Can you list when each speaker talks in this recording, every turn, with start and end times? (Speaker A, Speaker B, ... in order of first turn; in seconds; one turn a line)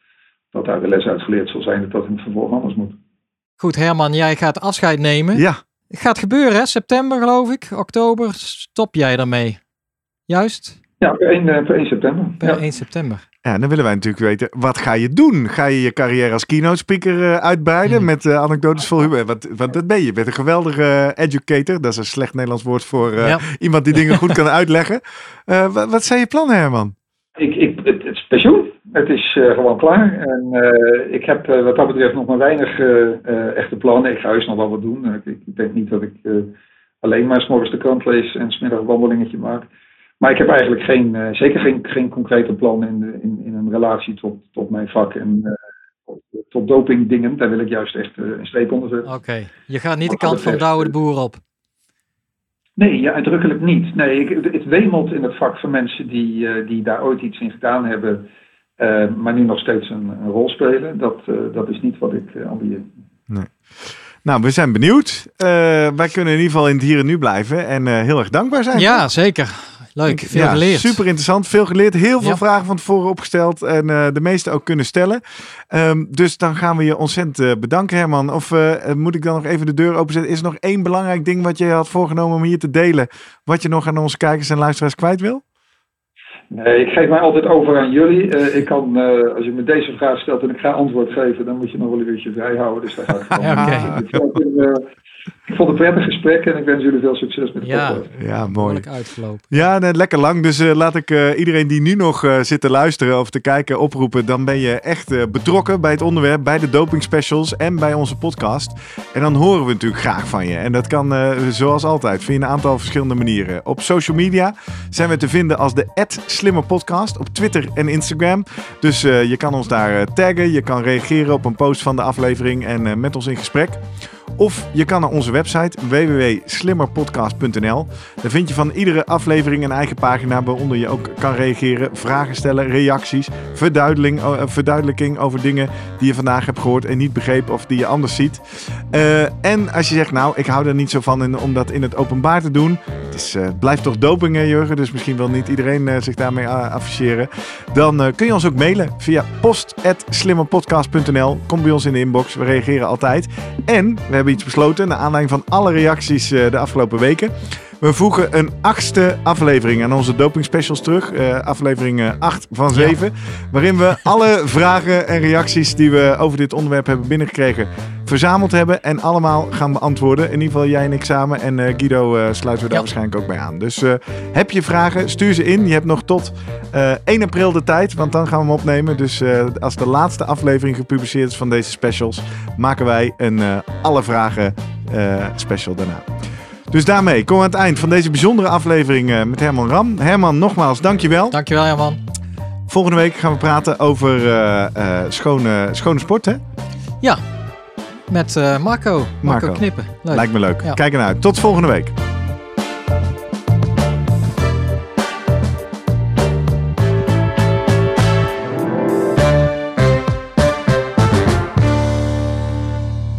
Speaker A: 0.5-3.0
Speaker B: 3.6-9.6
Speaker C: 5.3-5.6
Speaker B: 10.3-10.8
Speaker A: 11.0-12.6
Speaker B: 12.4-13.2
Speaker C: 13.4-26.9
Speaker B: 23.2-23.4
Speaker A: 27.4-39.7
Speaker A: 40.2-45.5
Speaker A: 46.1-49.1
Speaker B: 49.0-51.4
Speaker A: 50.1-50.9
Speaker A: 52.8-58.2
Speaker A: 58.8-62.9
Speaker C: 63.3-69.0
Speaker B: 68.7-71.0
Speaker C: 70.1-85.4
Speaker A: 86.5-94.9
Speaker B: 93.4-94.0
Speaker C: 93.6-93.9
Speaker A: 95.5-98.1
Speaker B: 97.6-99.6
Speaker C: 98.2-98.8
Speaker C: 99.5-123.8
Speaker C: 124.3-186.1
Speaker C: 186.7-191.4
Speaker B: 191.3-192.0
Speaker C: 192.7-196.4
Speaker B: 198.1-200.8
Speaker C: 199.2-201.9